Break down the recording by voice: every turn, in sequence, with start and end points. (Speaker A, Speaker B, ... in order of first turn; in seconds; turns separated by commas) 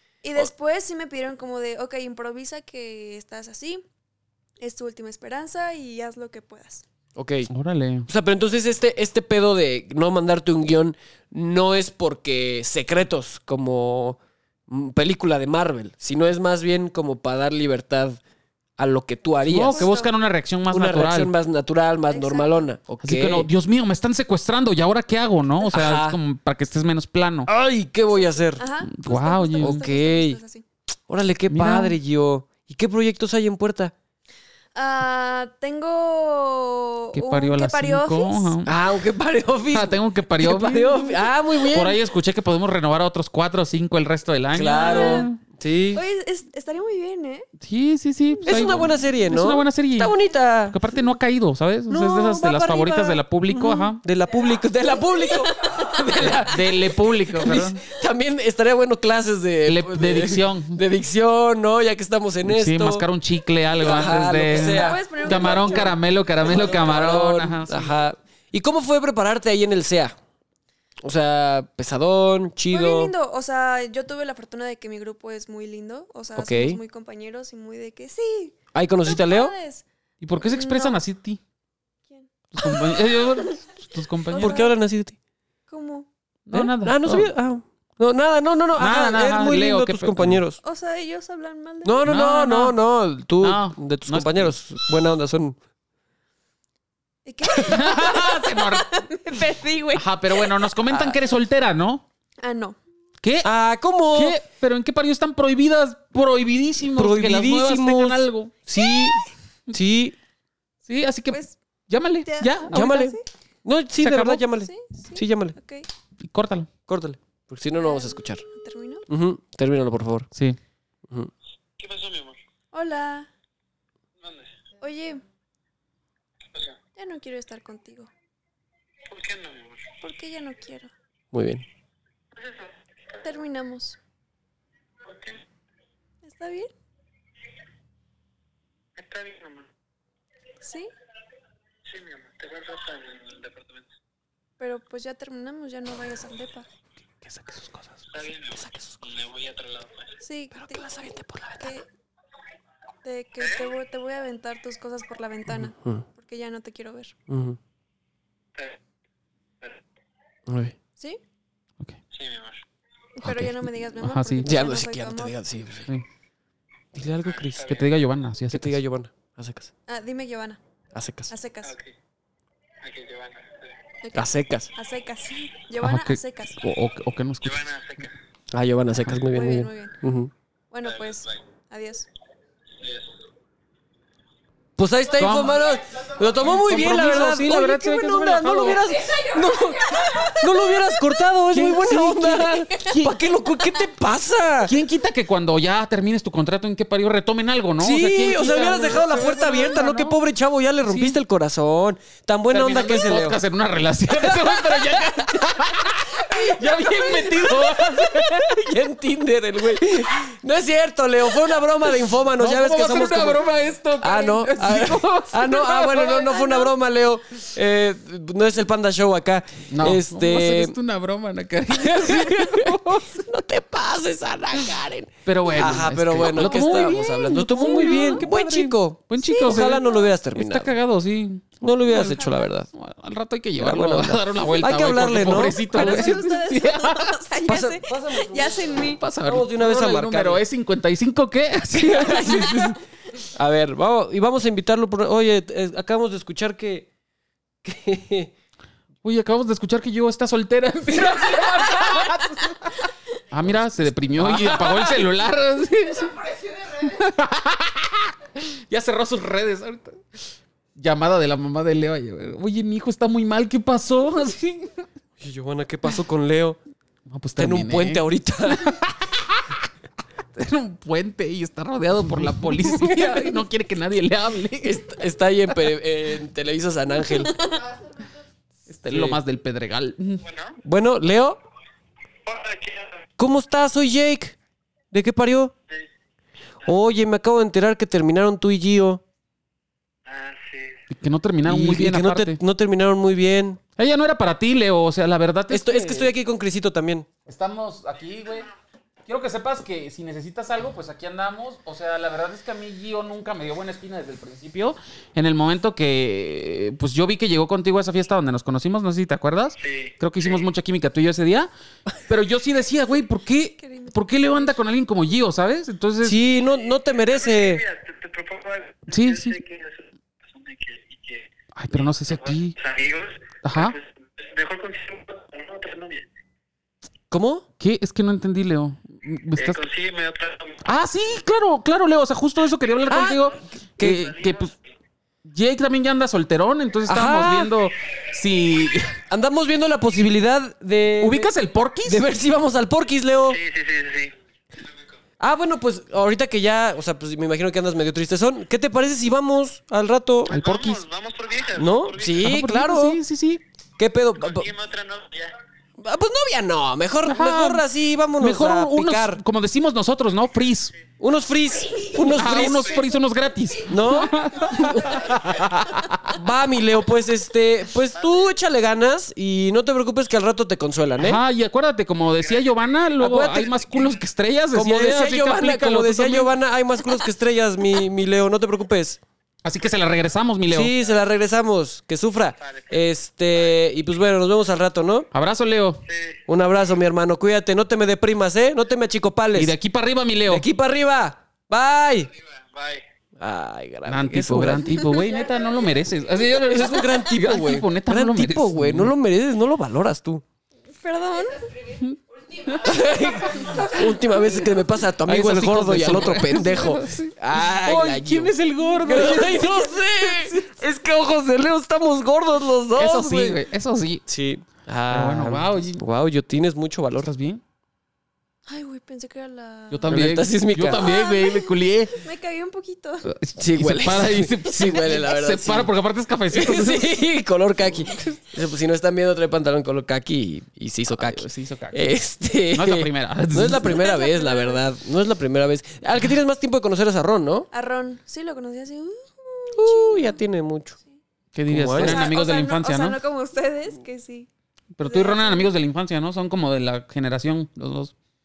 Speaker A: 0.2-3.9, Speaker A: 4.6-6.9, Speaker B: 7.2-7.5, Speaker C: 7.5-8.1, Speaker B: 8.1-18.2, Speaker B: 18.8-19.9, Speaker C: 19.5-21.3, Speaker A: 19.7-20.1, Speaker B: 20.7-23.5, Speaker A: 22.1-22.6, Speaker C: 23.0-27.5, Speaker B: 25.7-26.2, Speaker B: 27.5-28.6, Speaker A: 28.6-30.6, Speaker C: 28.9-29.8, Speaker B: 29.6-30.4, Speaker B: 31.1-33.9, Speaker C: 31.5-32.0, Speaker A: 34.8-38.5, Speaker C: 37.1-38.7, Speaker B: 38.6-42.0, Speaker C: 39.7-41.2, Speaker C: 41.7-45.4, Speaker B: 44.5-46.0, Speaker A: 44.8-45.3, Speaker A: 45.9-47.5, Speaker C: 47.6-50.2, Speaker B: 48.4-50.8, Speaker C: 50.7-54.0, Speaker B: 51.9-52.7, Speaker A: 52.4-53.2, Speaker B: 53.5-63.1, Speaker A: 55.3-56.4, Speaker C: 56.3-57.8, Speaker C: 59.7-60.8, Speaker C: 62.5-67.9, Speaker B: 63.8-70.2, Speaker A: 64.5-66.0, Speaker B: 71.0-73.1, Speaker A: 72.7-79.9, Speaker B: 76.4-76.8, Speaker B: 78.7-79.5, Speaker C: 80.2-81.4, Speaker A: 80.4-81.0, Speaker A: 82.1-83.5, Speaker C: 82.5-84.6, Speaker A: 84.3-84.8, Speaker B: 84.4-85.2, Speaker A: 85.7-86.1, Speaker C: 86.5-87.3, Speaker B: 86.5-90.6, Speaker C: 88.8-90.4, Speaker A: 90.6-92.1, Speaker B: 91.8-95.6, Speaker C: 92.0-92.8, Speaker C: 93.4-94.5, Speaker A: 97.3-100.6, Speaker C: 97.6-99.0, Speaker C: 100.0-102.0, Speaker A: 102.4-102.8, Speaker C: 103.2-103.5, Speaker B: 103.4-104.4, Speaker C: 104.1-109.1, Speaker B: 106.9-109.2, Speaker A: 108.8-109.1, Speaker B: 109.7-110.2, Speaker C: 110.8-113.1, Speaker A: 111.3-111.6, Speaker A: 112.2-113.2, Speaker B: 112.7-115.5, Speaker C: 114.0-114.4, Speaker A: 114.6-115.9, Speaker C: 116.2-116.7, Speaker B: 116.9-118.4, Speaker A: 117.8-119.1, Speaker B: 119.1-120.3, Speaker D: 121.8-122.4, Speaker A: 122.7-123.3, Speaker D: 124.2-124.5, Speaker A: 124.8-125.2, Speaker A: 127.0-128.1, Speaker D: 129.1-129.9, Speaker A: 130.0-130.9, Speaker B: 131.3-131.7, Speaker D: 132.3-132.8, Speaker A: 133.2-134.0, Speaker D: 135.1-135.4, Speaker A: 136.2-136.7, Speaker D: 139.0-139.7, Speaker A: 140.6-140.9, Speaker D: 141.9-143.9, Speaker A: 144.6-146.7, Speaker C: 147.2-148.0, Speaker D: 148.1-150.1, Speaker B: 148.5-149.1, Speaker A: 150.2-151.9, Speaker B: 150.5-151.8, Speaker A: 153.0-157.1, Speaker D: 153.4-153.7, Speaker B: 155.5-156.1, Speaker B: 157.3-157.6, Speaker B: 160.5-160.8, Speaker D: 162.1-162.6, Speaker A: 163.2-165.4, Speaker C: 163.2-164.5, Speaker B: 164.4-165.9, Speaker B: 166.9-167.8, Speaker D: 167.2-167.9, Speaker C: 167.7-168.8, Speaker B: 168.5-169.7, Speaker A: 169.9-170.6, Speaker B: 170.9-171.3, Speaker A: 171.3-171.7, Speaker D: 171.6-171.9, Speaker D: 172.8-173.8, Speaker A: 174.0-176.6, Speaker B: 174.1-174.7, Speaker C: 175.8-177.7, Speaker D: 177.4-178.2, Speaker B: 178.5-180.3, Speaker A: 179.3-179.9, Speaker A: 180.7-182.1, Speaker D: 180.8-181.3, Speaker D: 182.8-183.1, Speaker B: 184.8-194.7, Speaker C: 185.2-185.7, Speaker C: 186.4-188.9, Speaker A: 189.9-190.9, Speaker C: 191.5-193.2, Speaker C: 194.7-200.2, Speaker B: 197.8-203.4, Speaker C: 200.9-201.2, Speaker C: 202.5-208.7, Speaker B: 204.1-213.5, Speaker C: 212.4-216.6, Speaker B: 214.0-220.8, Speaker C: 219.7-223.2, Speaker B: 221.7-230.7, Speaker C: 225.3-237.2, Speaker A: 226.3-228.2, Speaker A: 229.2-230.1, Speaker B: 231.6-232.7, Speaker B: 233.6-236.2, Speaker A: 235.7-239.0, Speaker B: 237.4-240.4, Speaker C: 239.0-242.7, Speaker B: 241.7-246.9, Speaker A: 242.2-242.5, Speaker B: 247.6-248.3, Speaker C: 249.0-260.0, Speaker B: 254.2-255.1, Speaker C: 260.8-264.8, Speaker B: 265.2-266.6, Speaker C: 267.1-269.6, Speaker B: 267.4-268.8, Speaker C: 270.4-274.9, Speaker B: 272.6-273.3, Speaker B: 274.6-277.4, Speaker C: 278.7-280.2, Speaker B: 278.9-279.2, Speaker D: 280.2-280.6, Speaker B: 280.6-281.4, Speaker D: 282.2-283.1, Speaker B: 283.2-284.4, Speaker B: 284.9-285.5, Speaker B: 286.6-289.0, Speaker D: 290.1-290.8, Speaker C: 290.9-292.4, Speaker B: 291.5-293.6, Speaker C: 293.8-296.1, Speaker B: 295.5-297.1, Speaker C: 297.3-298.5, Speaker C: 299.1-311.5, Speaker D: 309.6-310.4, Speaker C: 312.1-316.2, Speaker A: 313.6-314.6, Speaker B: 316.0-317.6, Speaker D: 316.7-326.1, Speaker C: 318.9-319.4, Speaker C: 321.6-322.6, Speaker C: 323.4-323.8, Speaker B: 327.1-327.4, Speaker C: 327.6-329.6, Speaker D: 329.4-330.6, Speaker C: 330.6-334.5, Speaker B: 332.9-334.1, Speaker D: 334.1-334.5, Speaker C: 335.2-339.0, Speaker B: 336.9-337.6, Speaker B: 339.0-341.3, Speaker C: 341.0-342.1, Speaker B: 341.9-343.4, Speaker D: 343.3-344.1, Speaker B: 345.2-350.3, Speaker D: 350.3-352.3, Speaker C: 350.3-350.8, Speaker B: 351.6-353.0, Speaker C: 352.2-353.4, Speaker B: 353.8-354.5, Speaker D: 354.2-355.4, Speaker B: 355.8-359.2, Speaker C: 357.1-357.7, Speaker C: 358.2-360.7, Speaker B: 361.0-362.9, Speaker C: 362.0-366.2, Speaker D: 362.4-362.8, Speaker B: 363.6-365.5, Speaker B: 366.1-371.2, Speaker C: 371.0-376.3, Speaker D: 372.2-372.5, Speaker B: 373.0-373.7, Speaker B: 374.5-379.0, Speaker C: 379.4-380.7, Speaker B: 380.5-385.1, Speaker D: 382.4-382.8, Speaker C: 385.1-385.8, Speaker D: 385.9-386.2, Speaker B: 386.3-389.5, Speaker C: 389.4-390.5, Speaker B: 390.3-392.1, Speaker D: 392.3-392.8, Speaker B: 393.2-395.1, Speaker C: 393.9-398.9, Speaker B: 396.3-400.2, Speaker A: 400.8-401.5, Speaker C: 401.8-402.8, Speaker B: 402.6-413.4, Speaker C: 405.1-409.8, Speaker C: 412.8-414.0, Speaker B: 414.1-417.1, Speaker C: 414.9-415.8, Speaker C: 417.0-417.4, Speaker A: 418.5-419.9, Speaker C: 419.7-422.0, Speaker B: 419.9-420.9, Speaker A: 420.7-423.1, Speaker C: 423.1-427.0, Speaker B: 423.4-425.7, Speaker B: 426.3-437.5, Speaker C: 430.9-431.9, Speaker C: 432.5-433.8, Speaker A: 433.6-434.6, Speaker A: 437.5-440.2, Speaker B: 439.6-440.8, Speaker C: 441.3-443.0, Speaker B: 441.5-442.1, Speaker A: 441.8-444.3, Speaker C: 444.8-447.9, Speaker A: 444.8-445.5